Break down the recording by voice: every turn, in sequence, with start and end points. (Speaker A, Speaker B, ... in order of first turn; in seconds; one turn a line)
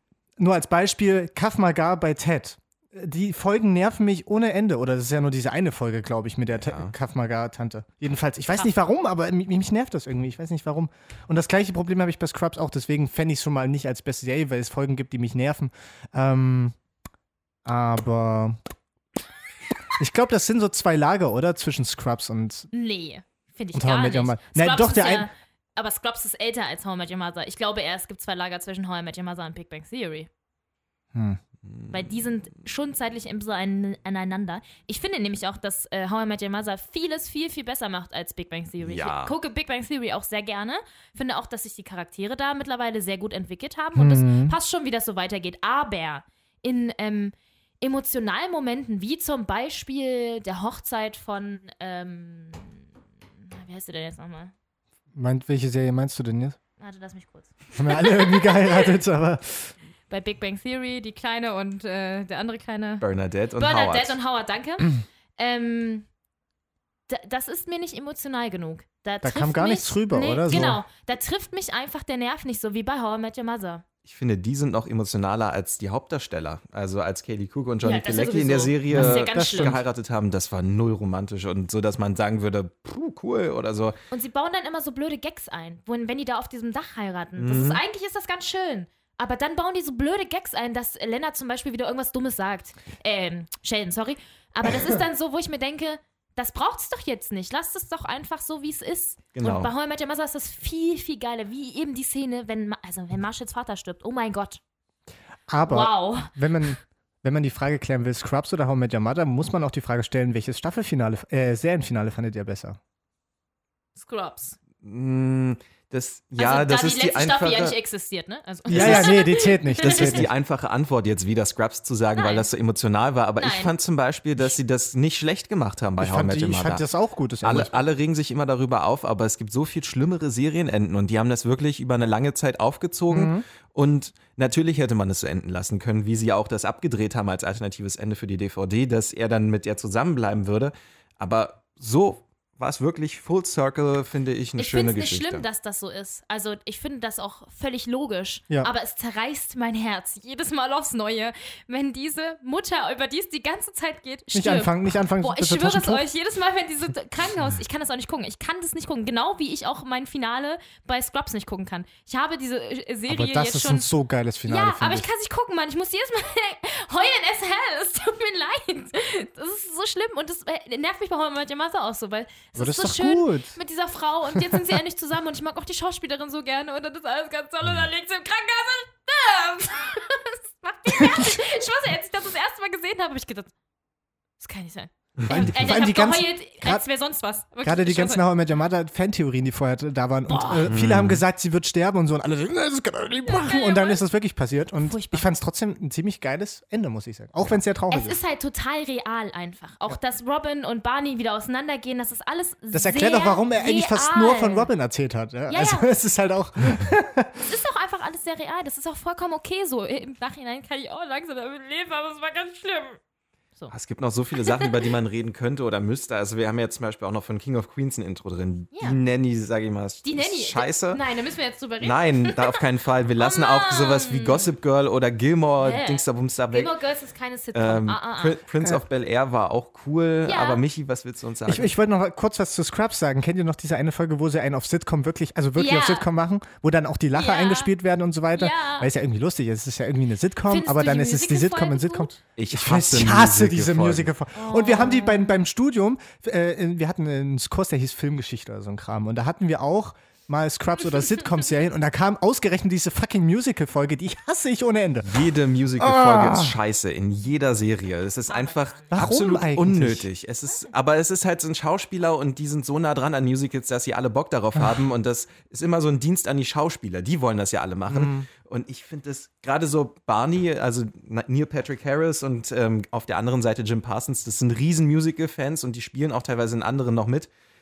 Speaker A: 0.4-16.8
Speaker B: 6.6-6.9
Speaker A: 17.6-18.6
Speaker A: 20.0-22.7
Speaker C: 22.7-30.3
Speaker A: 23.7-25.3
Speaker A: 31.1-31.4
Speaker B: 31.7-32.0
Speaker C: 31.9-52.9
Speaker B: 38.8-39.3
Speaker A: 44.0-44.6
Speaker C: 53.4-54.5
Speaker A: 55.1-56.6
Speaker C: 56.8-58.9
Speaker A: 57.8-59.7
Speaker C: 60.1-63.0
Speaker B: 63.0-64.2
Speaker C: 63.6-66.1
Speaker C: 67.1-73.8
Speaker A: 69.2-70.8
Speaker B: 74.0-84.0
Speaker C: 77.8-79.8
Speaker A: 78.9-79.8
Speaker C: 84.1-104.6
Speaker B: 87.4-87.8
Speaker B: 99.3-99.7
Speaker A: 105.5-112.8
Speaker C: 105.7-106.3
Speaker C: 114.0-114.6
Speaker B: 114.8-117.8
Speaker C: 116.4-120.2
Speaker B: 118.7-119.2
Speaker A: 118.7-120.3
Speaker B: 119.8-126.8
Speaker C: 122.2-122.5
Speaker C: 123.4-123.7
Speaker A: 126.0-127.8
Speaker B: 127.4-145.4
Speaker A: 133.1-133.4
Speaker C: 144.6-163.9
Speaker A: 154.3-156.1
Speaker A: 163.1-165.1
Speaker C: 164.5-183.5
Speaker A: 172.6-173.6
Speaker A: 181.0-181.3
Speaker C: 184.4-188.2
Speaker A: 185.3-186.8
Speaker A: 187.6-198.2
Speaker C: 190.3-190.7
Speaker B: 190.7-191.2
Speaker C: 193.3-194.0
Speaker C: 194.8-195.3
Speaker C: 197.9-204.7
Speaker A: 202.7-207.5
Speaker C: 205.5-205.9
Speaker C: 207.5-213.0
Speaker B: 213.7-221.0
Speaker C: 220.0-222.6
Speaker B: 221.8-226.7
Speaker C: 223.2-224.5
Speaker C: 225.6-228.4
Speaker B: 227.5-231.7
Speaker C: 230.3-230.6
Speaker A: 231.5-256.6
Speaker C: 235.6-236.1
Speaker C: 237.1-237.7
Speaker C: 238.3-238.9
Speaker C: 240.5-242.2
Speaker B: 242.4-244.1
Speaker C: 244.3-245.4
Speaker B: 255.0-277.3
Speaker C: 258.3-259.1
Speaker A: 258.9-260.1
Speaker A: 267.9-268.3